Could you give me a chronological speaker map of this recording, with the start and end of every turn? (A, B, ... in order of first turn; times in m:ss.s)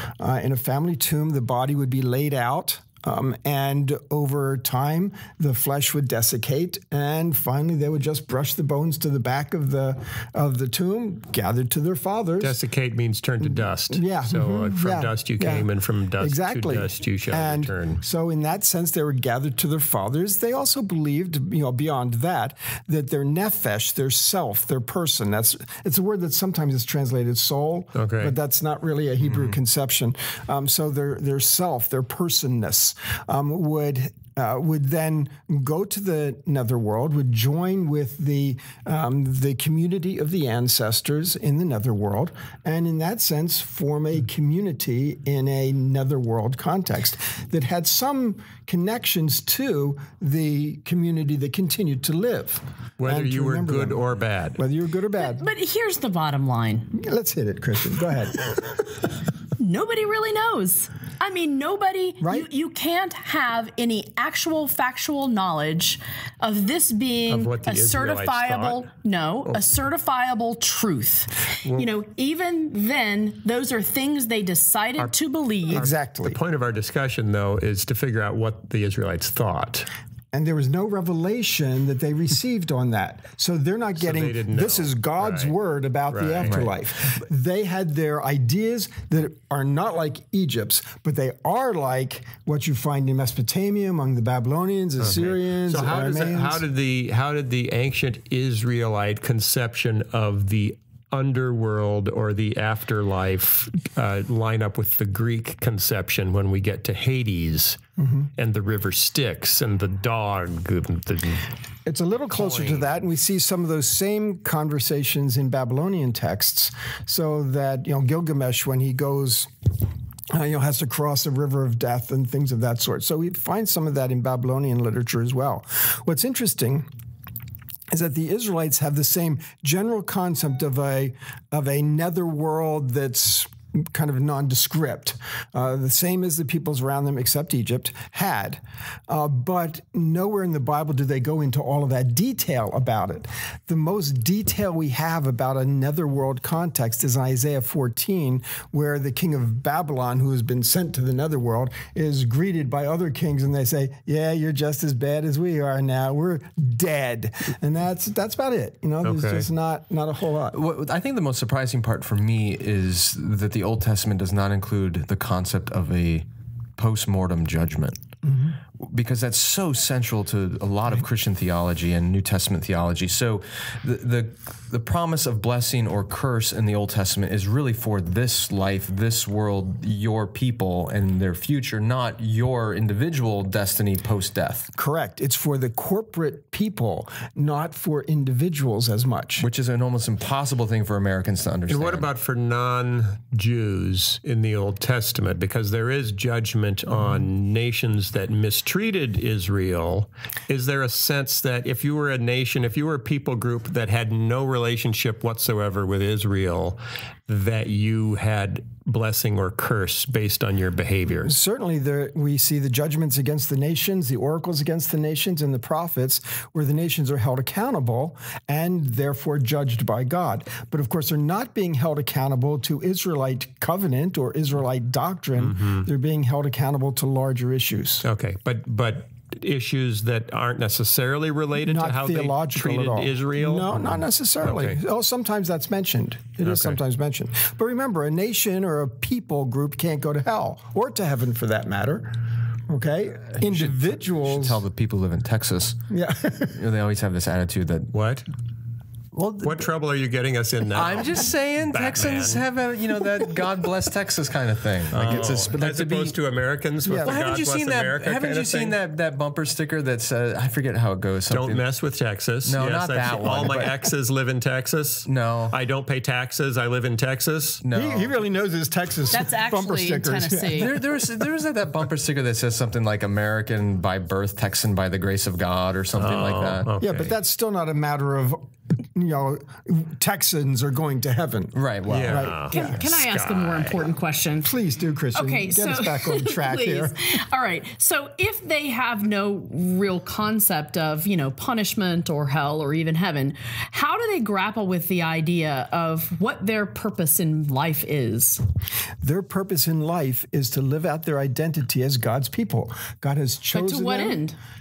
0:00.2-0:12.6 A
0:12.4-0:18.0 B
0:13.4-0:15.7 A
0:16.2-0:55.4 A
0:28.0-0:28.4 B
0:53.0-0:54.6 B
0:55.2-0:56.9 C
0:57.0-0:58.9 A
0:59.6-1:15.9 C
1:02.2-1:02.5 A
1:07.3-1:08.8 B
1:15.7-1:16.4 A
1:15.7-1:19.9 B
1:20.3-1:36.6 A
1:24.0-1:25.6 B
1:26.1-1:26.6 B
1:26.4-1:26.8 D
1:35.0-1:47.8 B
1:48.0-1:48.3 A
1:48.4-1:51.5 B
1:51.9-1:59.5 A
1:52.3-1:52.9 B
2:00.3-2:06.9 A
2:07.9-2:40.6 A
2:39.0-2:39.5 B
2:40.5-2:48.0 D
2:48.2-2:48.6 A
2:48.8-3:04.7 D
3:04.8-3:09.5 A
3:09.4-3:12.1 D
3:11.7-3:31.3 B
3:31.3-3:48.0 A
3:45.4-3:45.9 B
3:48.0-3:54.8 B
3:51.6-4:02.2 A
3:56.4-3:56.8 B
4:02.7-4:04.6 A
4:03.3-4:05.8 D
4:05.9-4:06.6 A
4:06.5-4:07.9 D
4:07.9-4:08.2 B
4:09.1-4:09.7 D
4:09.4-4:12.4 B
4:10.8-4:16.2 D
4:14.9-4:18.8 B
4:16.8-4:17.2 A
4:17.0-4:21.6 D
4:21.3-4:27.6 B
4:22.5-4:23.8 D
4:25.0-4:25.6 D
4:27.6-4:28.2 D
4:27.7-4:30.8 A
4:29.1-4:30.7 C
4:30.6-4:37.1 D
4:36.0-4:37.1 B
4:36.8-4:42.8 A
4:41.5-4:42.8 D
4:41.9-4:43.8 B
4:42.5-4:44.5 C
4:44.4-4:47.0 A
4:45.2-4:58.4 C
4:59.0-5:04.2 A
5:03.5-5:04.4 C